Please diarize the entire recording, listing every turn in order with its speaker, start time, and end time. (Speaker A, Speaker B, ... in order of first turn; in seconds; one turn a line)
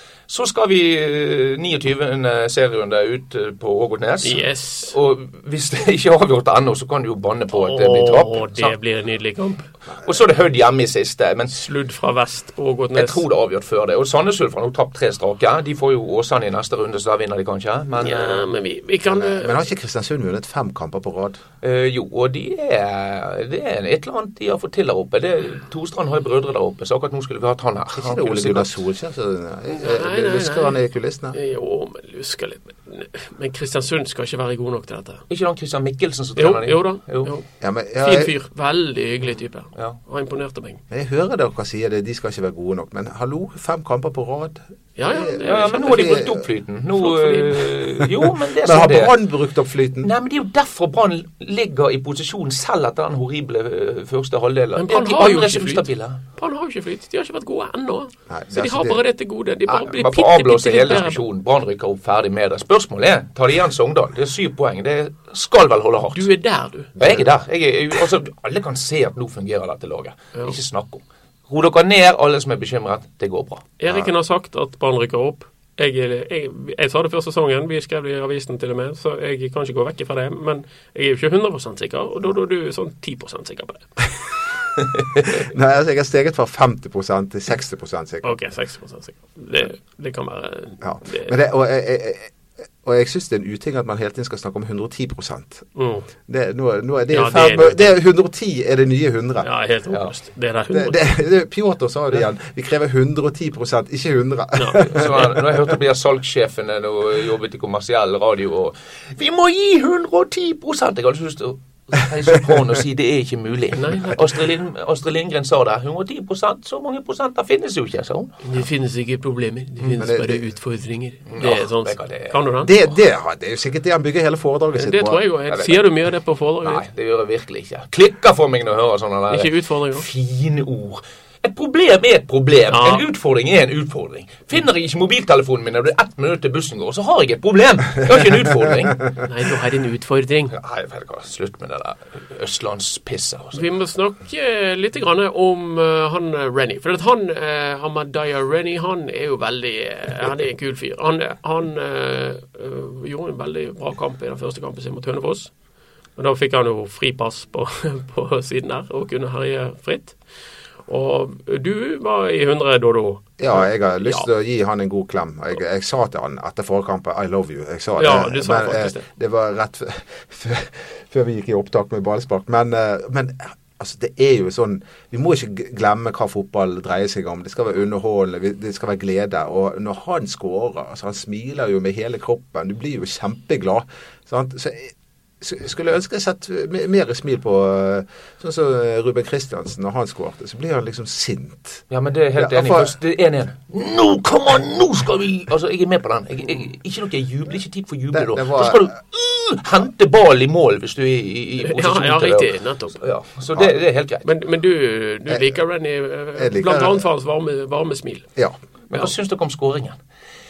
Speaker A: 0.3-8.7
Speaker B: 4.2-5.0
Speaker B: 7.5-9.7
Speaker A: 10.0-11.6
Speaker B: 11.5-13.2
Speaker A: 13.0-18.5
Speaker B: 18.0-19.6
Speaker C: 19.1-21.4
Speaker A: 21.6-28.8
Speaker C: 28.0-31.4
Speaker B: 29.7-30.8
Speaker B: 31.3-35.2
Speaker A: 35.3-37.3
Speaker B: 36.4-37.5
Speaker C: 37.6-38.3
Speaker B: 38.0-40.8
Speaker C: 40.9-46.4
Speaker B: 45.0-46.2
Speaker A: 45.5-49.1
Speaker B: 47.0-47.7
Speaker C: 48.6-50.1
Speaker A: 50.0-56.2
Speaker B: 54.8-61.2
Speaker C: 58.3-59.0
Speaker A: 59.7-66.3
Speaker B: 66.1-66.9
Speaker C: 67.0-67.3
Speaker A: 67.0-73.7
Speaker B: 73.8-83.9
Speaker C: 85.2-88.3
Speaker B: 88.2-91.3
Speaker C: 90.8-95.7
Speaker B: 95.8-96.1
Speaker C: 96.3-99.5
Speaker B: 97.1-97.9
Speaker B: 99.4-101.0
Speaker C: 100.7-105.7
Speaker B: 104.5-104.8
Speaker A: 104.9-118.4
Speaker B: 113.8-114.4
Speaker B: 118.4-122.7
Speaker C: 119.8-120.5
Speaker A: 121.3-122.4
Speaker C: 122.6-125.2
Speaker B: 124.8-126.8
Speaker A: 125.5-125.8
Speaker A: 126.6-139.1
Speaker B: 129.3-130.1
Speaker B: 132.7-133.1
Speaker B: 139.2-140.6
Speaker A: 140.5-143.6
Speaker B: 143.5-155.5
Speaker B: 156.2-160.2
Speaker B: 160.9-164.3
Speaker C: 163.4-191.8
Speaker B: 168.0-169.1
Speaker A: 191.9-204.3
Speaker C: 192.4-192.9
Speaker C: 198.1-198.9
Speaker B: 201.6-203.0
Speaker B: 204.2-208.3
Speaker C: 206.4-207.1
Speaker A: 208.9-210.0